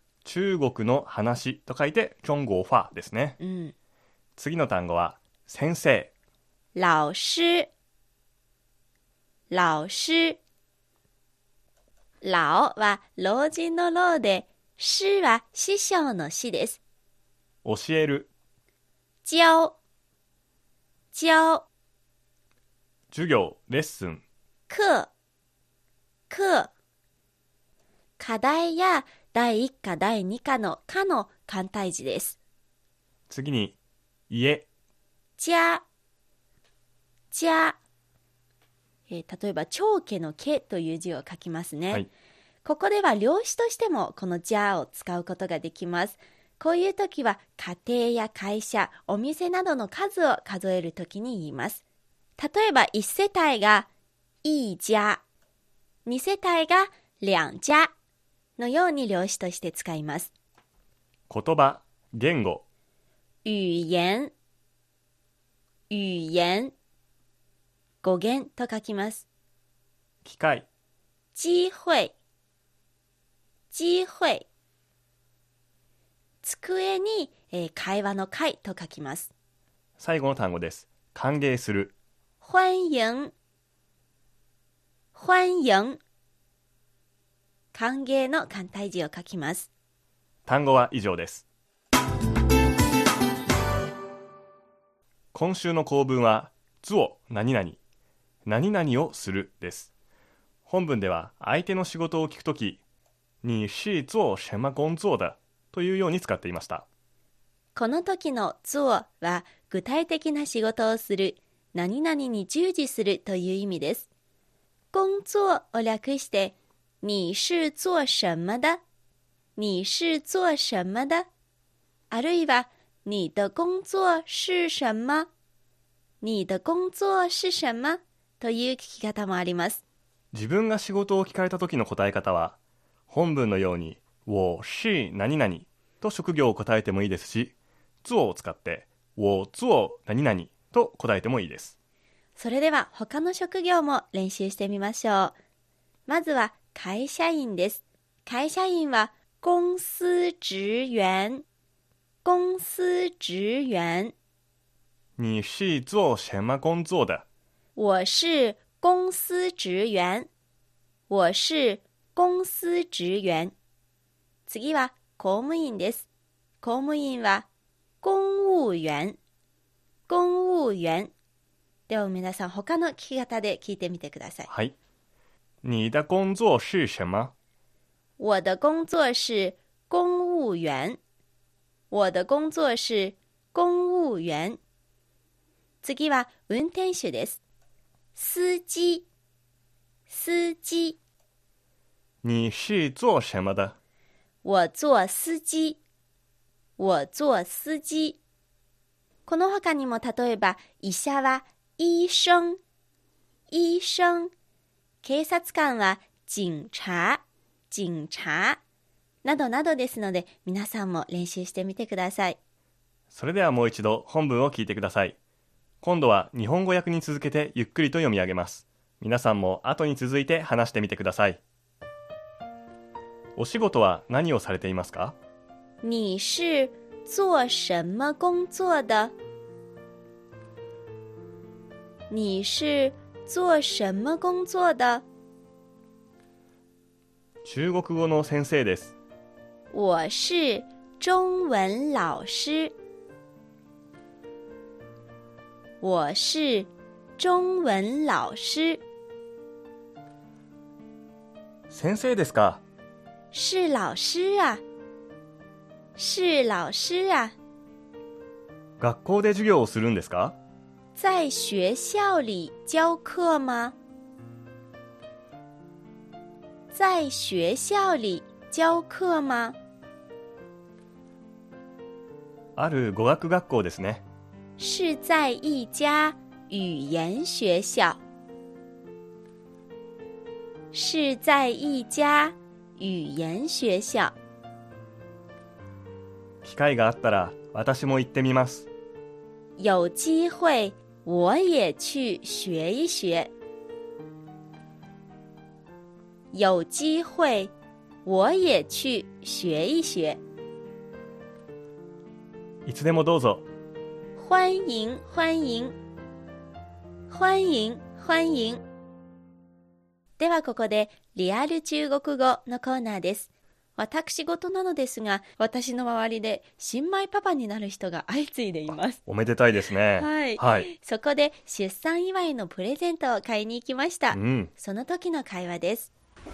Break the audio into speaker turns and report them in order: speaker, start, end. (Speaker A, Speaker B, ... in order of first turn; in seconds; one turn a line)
Speaker A: 0.2-3.4
Speaker B: 3.4-3.7
Speaker A: 4.4-6.1
Speaker B: 6.7-7.7
Speaker B: 9.5-10.4
Speaker B: 12.2-16.8
Speaker A: 17.6-18.3
Speaker B: 19.2-19.8
Speaker B: 21.1-21.6
Speaker A: 23.1-24.2
Speaker B: 24.7-25.1
Speaker B: 26.3-26.7
Speaker B: 28.2-32.4
Speaker A: 33.3-33.7
Speaker A: 34.3-34.7
Speaker B: 35.4-35.8
Speaker B: 37.3-37.8
Speaker B: 39.1-42.0
Speaker B: 42.6-51.8
Speaker B: 52.4-53.9
Speaker B: 54.4-55.2
Speaker B: 56.0-57.9
Speaker B: 58.6-60.3
Speaker A: 61.3-62.6
Speaker B: 63.4-64.3
Speaker B: 65.9-66.7
Speaker B: 68.0-69.2
Speaker A: 70.2-70.7
Speaker B: 71.3-72.1
Speaker B: 73.7-74.5
Speaker B: 76.4-79.3
Speaker A: 80.0-81.9
Speaker B: 82.4-83.3
Speaker B: 85.1-86.0
Speaker B: 87.7-89.7
Speaker A: 90.5-91.4
Speaker A: 95.3-97.8
Speaker A: 98.5-99.9
Speaker A: 100.7-102.8
Speaker A: 103.4-106.8
Speaker B: 107.7-114.1
Speaker B: 114.9-118.8
Speaker B: 119.5-121.2
Speaker B: 122.1-125.3
Speaker B: 126.2-129.8
Speaker A: 130.3-132.6
Speaker A: 133.1-137.5
Speaker A: 138.0-141.7
Speaker B: 142.4-145.3
Speaker B: 146.1-151.4
Speaker B: 152.2-154.1
Speaker A: 155.2-157.2
Speaker B: 157.8-160.3
Speaker B: 161.1-163.5
Speaker B: 164.5-166.0
Speaker B: 166.6-167.5
Speaker B: 168.0-169.2
Speaker B: 170.1-171.1
Speaker B: 171.9-174.5
Speaker A: 174.5-174.7
Speaker A: 175.6-177.3
Speaker B: 178.2-181.0
Speaker B: 181.9-184.6
Speaker B: 185.8-187.4
Speaker B: 188.1-189.1
Speaker B: 190.1-191.0
Speaker A: 192.2-193.8
Speaker B: 194.4-195.8
Speaker B: 196.8-198.2
Speaker B: 199.2-202.6
Speaker B: 203.5-204.3
Speaker B: 205.0-208.6
Speaker B: 209.2-212.4
Speaker A: 213.1-215.2
Speaker A: 215.8-221.4
Speaker A: 223.4-225.2
Speaker B: 225.8-229.1
Speaker B: 232.1-235.0
Speaker A: 237.4-238.9
Speaker B: 239.7-242.7
Speaker B: 245.8-248.8
Speaker A: 251.7-252.6
Speaker B: 253.3-254.6
Speaker B: 255.9-257.3
Speaker A: 258.8-260.4
Speaker B: 260.9-263.8
Speaker B: 266.7-269.6
Speaker A: 272.6-274.0
Speaker B: 274.6-278.0
Speaker B: 280.7-284.1
Speaker A: 286.4-288.7
Speaker B: 289.6-293.3
Speaker B: 296.3-297.5
Speaker B: 298.0-300.2
Speaker A: 302.6-303.4
Speaker B: 304.1-305.8
Speaker B: 307.1-308.6
Speaker B: 310.2-319.0
Speaker A: 319.1-320.7
Speaker B: 320.0-325.9
Speaker A: 324.1-324.5